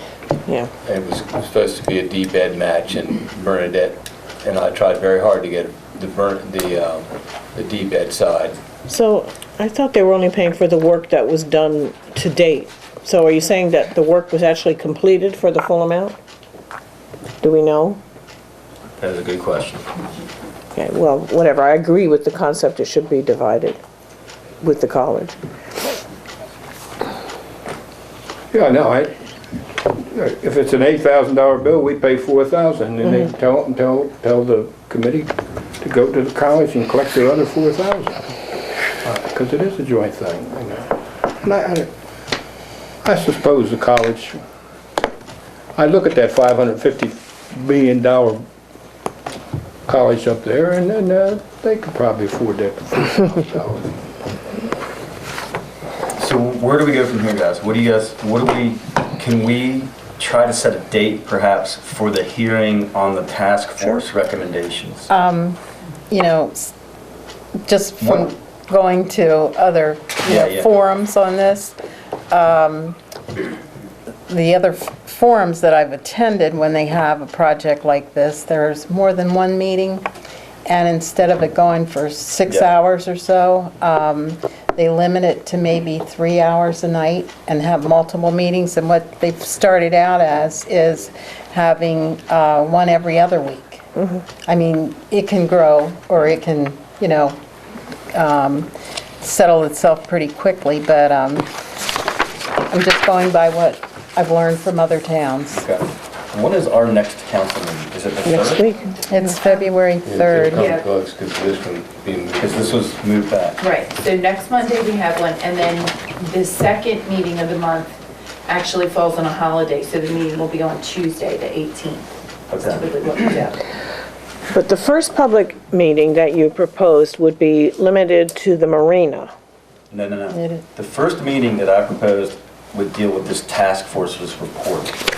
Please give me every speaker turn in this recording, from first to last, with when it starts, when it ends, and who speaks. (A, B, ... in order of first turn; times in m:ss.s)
0:00.4-0:00.7 A
0:00.8-0:08.6 B
0:08.9-0:16.2 A
0:17.4-0:18.0 A
0:19.0-0:19.8 C
0:20.7-0:23.8 A
0:24.6-0:25.4 A
0:28.5-0:29.1 D
0:30.0-0:38.3 D
0:39.0-0:40.9 D
0:41.4-0:41.9 D
0:43.0-0:44.4 D
0:45.7-0:48.4 D
0:49.9-0:53.9 D
0:56.2-1:05.1 C
1:05.1-1:05.6 E
1:06.1-1:06.7 E
1:07.6-1:11.8 E
1:08.0-1:08.3 C
1:10.3-1:10.7 C
1:12.3-1:13.0 E
1:14.3-1:20.0 E
1:20.6-1:33.8 E
1:34.4-1:37.4 E
1:38.1-1:38.7 E
1:39.2-1:41.5 E
1:42.7-1:45.6 E
1:45.5-1:48.6 C
1:48.2-1:49.3 A
1:49.1-1:50.7 E
1:50.0-1:52.8 B
1:50.5-1:50.8 F
1:52.4-1:53.6 C
1:53.6-2:02.1 F
2:02.5-2:02.9 C
2:02.6-2:03.6 F
2:04.5-2:09.3 A
2:09.9-2:15.0 C
2:10.3-2:10.6 E